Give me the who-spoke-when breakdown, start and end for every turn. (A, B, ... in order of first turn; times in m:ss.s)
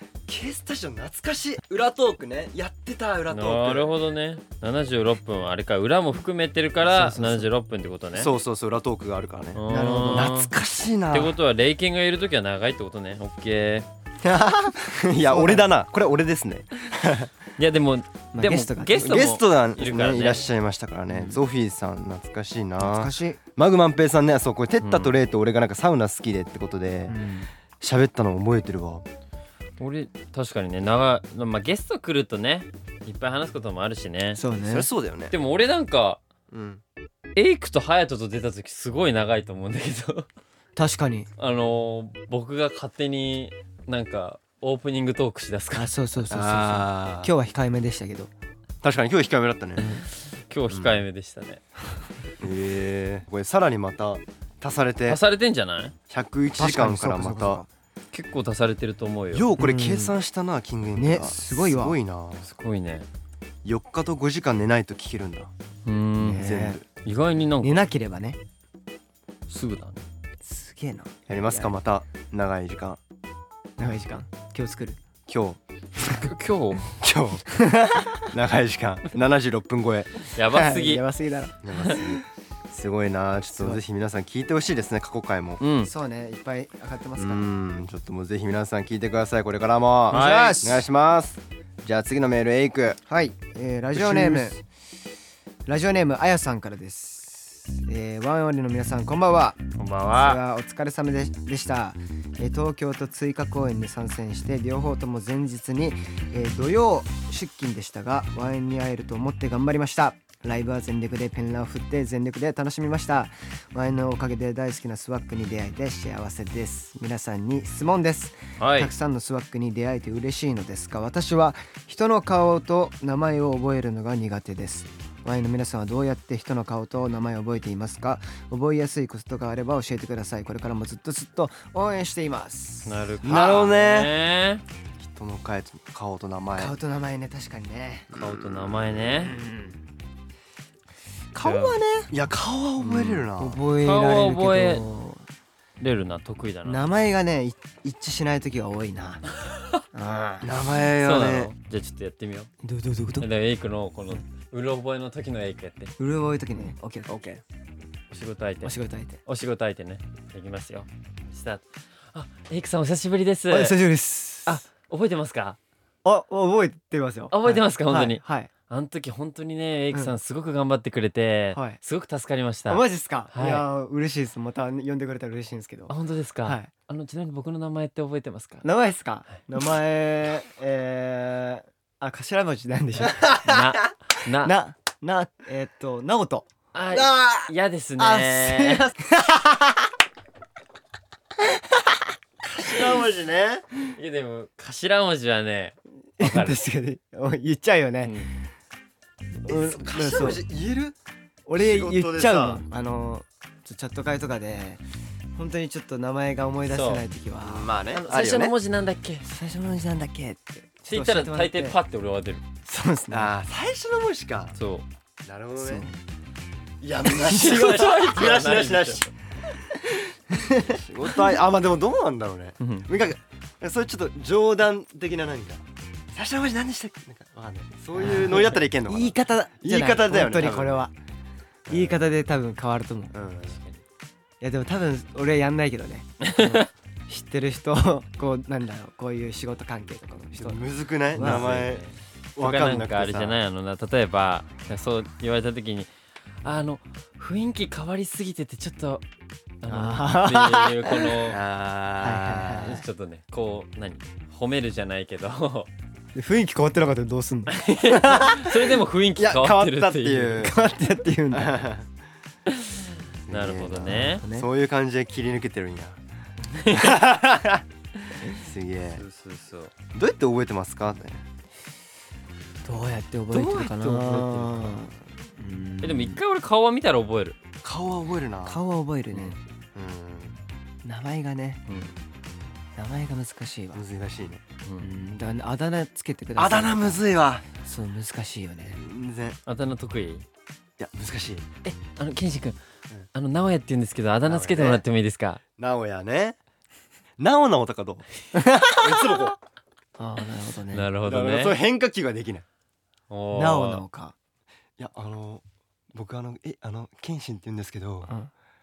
0:00.3-0:03.9 A
0:03.3-0:08.3 B
0:06.9-0:07.5 C
0:08.1-0:11.3 A
0:09.5-0:10.5 B
0:09.7-0:10.3 C
0:11.1-0:13.9 B
0:14.2-0:17.3 A
0:15.2-0:15.7 C
0:17.6-0:20.4 B
0:18.3-0:19.2 C
0:19.0-0:27.2 A
0:21.1-0:21.4 C
0:22.8-0:23.4 C
0:24.8-0:25.1 B
0:27.1-0:27.5 C
0:27.8-0:29.0 A
0:29.8-0:34.4 B
0:34.3-0:34.9 C
0:34.6-0:35.3 A
0:35.3-0:36.2 B
0:36.5-0:36.8 A
0:37.4-0:40.3 B
0:40.8-0:41.3 C
0:41.4-0:45.9 B
0:45.7-0:48.3 C
0:46.3-0:47.3 A
0:48.8-0:49.8 A
0:50.5-0:51.6 B
0:50.7-0:51.0 A
0:52.4-0:55.2 A
0:55.1-0:55.9 B
0:56.1-0:57.6 A
0:56.6-0:57.7 C
0:58.1-0:59.4 B
0:59.3-1:02.5 A
0:59.6-1:00.1 C
1:00.9-1:02.0 C
1:02.5-1:03.1 B
1:03.6-1:05.5 A
1:05.8-1:07.9 B
1:06.2-1:06.8 C
1:06.4-1:06.8 A
1:07.6-1:08.4 C
1:09.5-1:10.0 B
1:10.4-1:11.8 C
1:11.3-1:13.0 A
1:13.8-1:15.0 C
1:15.3-1:15.6 A
1:16.1-1:16.9 B
1:17.0-1:17.4 A
1:17.5-1:18.2 C
1:18.2-1:20.2 A
1:20.3-1:21.0 B
1:20.5-1:22.2 C
1:21.6-1:25.6 A
1:25.6-1:25.9 B
1:25.8-1:27.4 C
1:27.2-1:33.0 A
1:30.1-1:30.6 B
1:30.1-1:30.8 C
1:33.1-1:34.6 C
1:33.9-1:34.5 A
1:35.7-1:39.6 C
1:39.8-1:40.4 B
1:40.1-2:13.2 C
1:58.6-1:58.9 B
2:12.8-2:14.6 B
2:13.2-2:14.1 A
2:15.0-2:16.7 A
2:16.6-2:18.1 C
2:18.1-2:19.2 A
2:18.2-2:19.4 B
2:19.2-2:19.8 C
2:21.3-2:22.1 C
2:21.4-2:21.8 B
2:22.1-2:23.6 A
2:23.4-2:25.2 C
2:23.8-2:24.8 B
2:25.8-2:26.8 B
2:26.6-2:29.2 C
2:29.9-2:30.5 C
2:30.4-2:31.5 A
2:31.0-2:32.5 B
2:32.6-2:33.3 C
2:33.2-2:35.9 B
2:36.0-2:37.2 C
2:37.1-2:37.4 A
2:38.1-2:38.7 B
2:38.6-2:39.2 C
2:39.2-2:43.8 B
2:43.5-2:44.6 C
2:44.4-2:45.6 B
2:46.0-2:48.5 C
2:47.3-2:52.8 B
2:51.5-2:51.8 C
2:52.7-2:56.7 C
2:53.3-2:53.6 B
2:55.9-2:58.6 B
2:58.6-3:03.7 C
3:03.2-3:04.5 B
3:04.4-3:06.5 C
3:06.7-3:08.9 B
3:06.9-3:07.3 A
3:08.0-3:09.9 C
3:11.4-3:12.0 C
3:12.4-3:13.6 A
3:13.9-3:16.6 B
3:16.2-3:18.2 C
3:19.4-3:20.4 C
3:19.5-3:21.0 A
3:21.5-3:24.8 C
3:21.6-3:22.6 A
3:25.3-3:27.7 C
3:26.7-3:27.0 B
3:27.4-3:28.5 A
3:27.9-3:29.2 B
3:29.2-3:31.8 C
3:30.8-3:32.4 B
3:32.6-3:33.3 C
3:33.1-3:34.6 A
3:34.6-3:34.8 B
3:35.2-3:35.8 A
3:35.6-3:36.0 C
3:36.8-3:39.1 A
3:37.2-3:39.1 B
3:39.7-3:41.1 C
3:40.6-3:50.9 A
3:42.6-3:42.9 B
3:48.0-3:50.9 C
3:51.7-3:52.0 A
3:51.7-3:53.1 C
3:53.1-3:53.6 A
3:53.5-3:53.8 B
3:54.4-4:00.6 C
3:56.2-3:56.7 B
4:00.4-4:03.4 A
4:01.1-4:01.5 C
4:01.2-4:05.9 B
4:06.4-4:09.0 B
4:09.6-4:11.4 B
4:09.7-4:11.2 C
4:11.3-4:12.7 A
4:12.0-4:12.8 C
4:12.6-4:15.7 B
4:16.1-4:18.5 C
4:17.5-4:20.5 B
4:19.2-4:20.5 A
4:20.4-4:21.7 C
4:21.3-4:21.9 A
4:22.5-4:24.2 B
4:23.3-4:26.0 A
4:23.8-4:24.5 C
4:26.6-4:27.0 B
4:26.6-4:27.6 A
4:28.3-4:29.0 A
4:28.9-4:29.7 B
4:29.9-4:31.2 A
4:32.6-4:36.2 C
4:33.3-4:34.7 B
4:35.8-4:37.4 B
4:37.6-4:38.6 A
4:38.4-4:39.4 C
4:39.7-4:40.4 A
4:40.8-4:41.6 C
4:42.8-4:43.8 C
4:43.7-4:44.4 A
4:44.8-4:47.0 C
4:46.4-4:47.4 A
4:47.6-4:48.8 C
4:48.7-4:49.4 A
4:49.5-4:50.2 B
4:50.8-4:51.5 A
4:51.6-4:52.6 B
4:53.1-4:55.4 B
4:54.2-4:54.8 A
4:55.6-4:56.4 A
4:57.2-4:59.4 A
4:58.3-4:59.1 C
5:00.0-5:00.9 C
5:00.7-5:01.6 B
5:01.0-5:02.4 A
5:03.1-5:03.8 B
5:03.3-5:04.1 C
5:04.8-5:08.1 A